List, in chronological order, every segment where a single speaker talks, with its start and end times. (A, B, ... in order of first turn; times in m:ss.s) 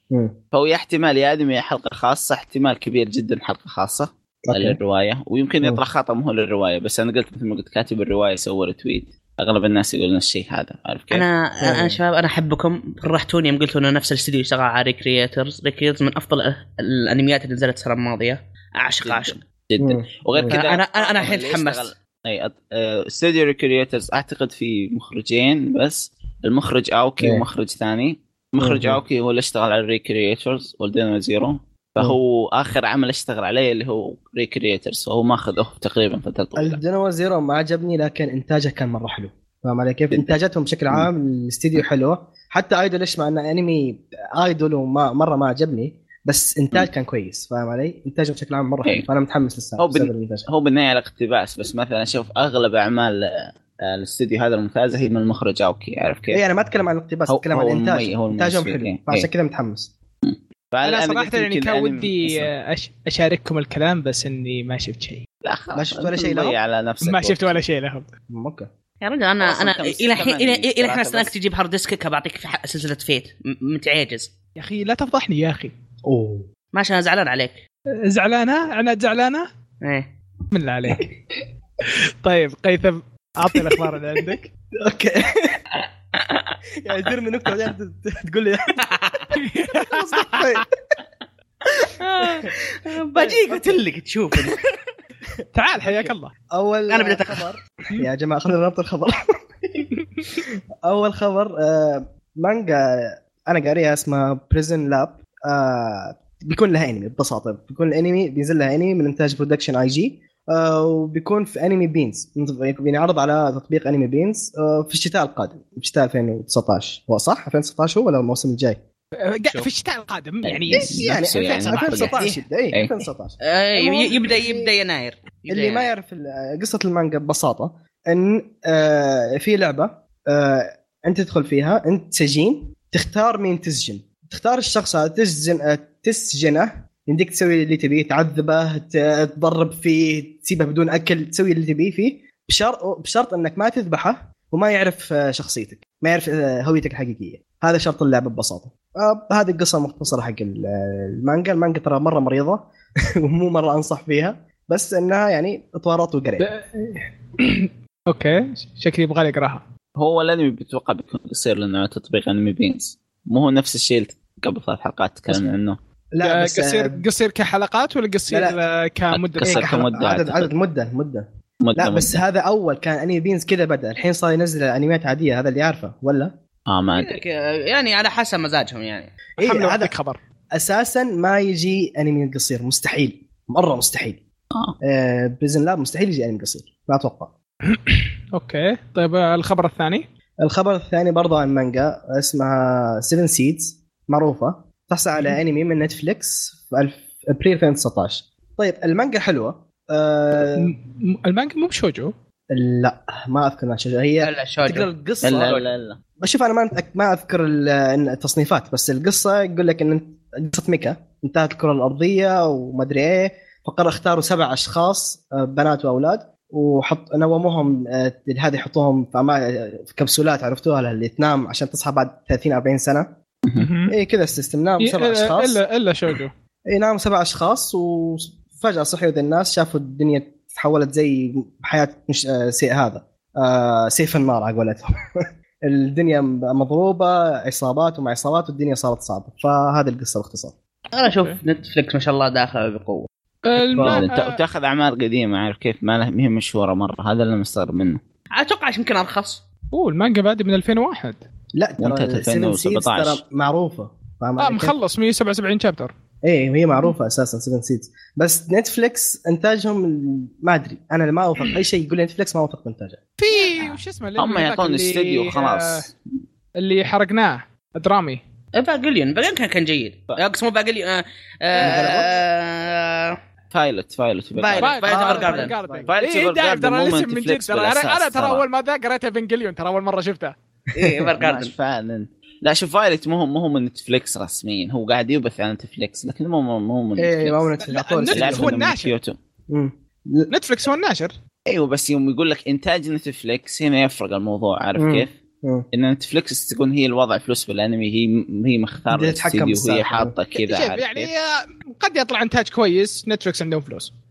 0:00.1-0:00.4 A
0:00.5-0:11.2 B
0:04.5-0:04.8 A
0:11.1-0:19.4 C
0:11.6-0:12.0 A
0:19.0-0:36.8 B
0:19.8-0:20.6 A
0:20.5-0:21.9 C
0:27.2-0:27.4 A
0:28.6-0:29.0 A
0:36.6-0:50.4 A
0:49.8-0:56.4 B
0:56.3-0:59.9 A
0:57.3-0:59.3 B
1:00.2-1:02.5 B
1:00.8-1:05.2 D
1:05.4-1:07.6 B
1:05.7-1:06.6 A
1:07.0-1:08.1 D
1:08.3-1:08.7 A
1:09.0-1:14.3 C
1:09.4-1:11.3 B
1:14.6-1:15.7 D
1:16.0-1:16.5 A
1:16.7-1:17.6 C
1:18.1-1:19.5 D
1:19.8-1:20.1 C
1:20.5-1:21.1 D
1:21.8-1:24.5 D
1:23.6-1:23.8 A
1:24.8-1:25.6 A
1:26.8-1:28.8 A
1:28.8-1:29.3 C
1:29.3-1:30.6 D
1:29.9-1:30.7 A
1:31.8-1:34.6 C
1:33.1-1:33.8 A
1:35.4-1:58.8 A
1:35.5-1:36.3 D
1:36.9-1:37.4 C
1:59.2-2:02.2 D
2:00.4-2:03.0 B
2:00.7-2:04.7 A
2:03.4-2:05.9 C
2:05.5-2:32.6 A
2:33.2-2:36.5 A
2:36.4-2:39.6 D
2:40.0-2:45.8 B
2:46.1-2:47.0 A
2:46.2-2:49.8 D
2:48.3-2:48.6 A
2:49.1-2:50.5 B
2:49.4-2:56.3 A
2:51.6-2:52.2 B
2:56.7-2:57.2 B
2:57.0-2:59.1 C
2:59.4-3:00.2 D
2:59.4-2:59.9 A
3:00.5-3:04.2 A
3:04.8-3:07.3 A
3:07.7-3:10.0 D
3:10.4-3:20.7 A
3:20.4-3:22.1 D
3:22.5-3:25.6 A
3:24.2-3:25.7 C
3:25.2-3:26.0 B
3:26.2-3:43.1 A
3:43.5-3:43.9 D
3:43.9-3:45.6 A
3:44.8-3:46.3 D
3:46.7-4:00.5 A
4:00.9-4:03.1 C
4:01.0-4:01.4 D
4:03.4-4:04.4 D
4:03.6-4:08.0 B
4:03.7-4:04.0 A
4:08.3-4:09.4 C
4:09.7-4:11.2 D
4:11.6-4:14.8 A
4:11.8-4:13.2 B
4:14.4-4:15.9 D
4:16.2-4:23.0 A
4:23.2-4:25.8 D
4:24.2-4:26.0 B
4:26.6-4:28.2 D
4:28.6-4:33.2 C
4:31.6-4:32.1 A
4:33.5-4:34.9 B
4:34.4-4:35.5 C
4:34.6-4:40.4 D
4:34.9-4:35.9 A
4:35.9-4:38.4 B
4:40.7-4:41.5 C
4:40.8-4:41.1 A
4:41.2-4:47.5 B
4:47.0-4:48.6 A
4:47.6-4:49.0 D
4:48.1-4:49.2 B
4:49.5-4:50.3 A
4:50.3-4:51.1 D
4:51.5-4:55.2 B
4:54.8-4:55.7 A
4:55.7-5:01.1 B
4:58.9-5:00.1 A
5:00.3-5:03.9 D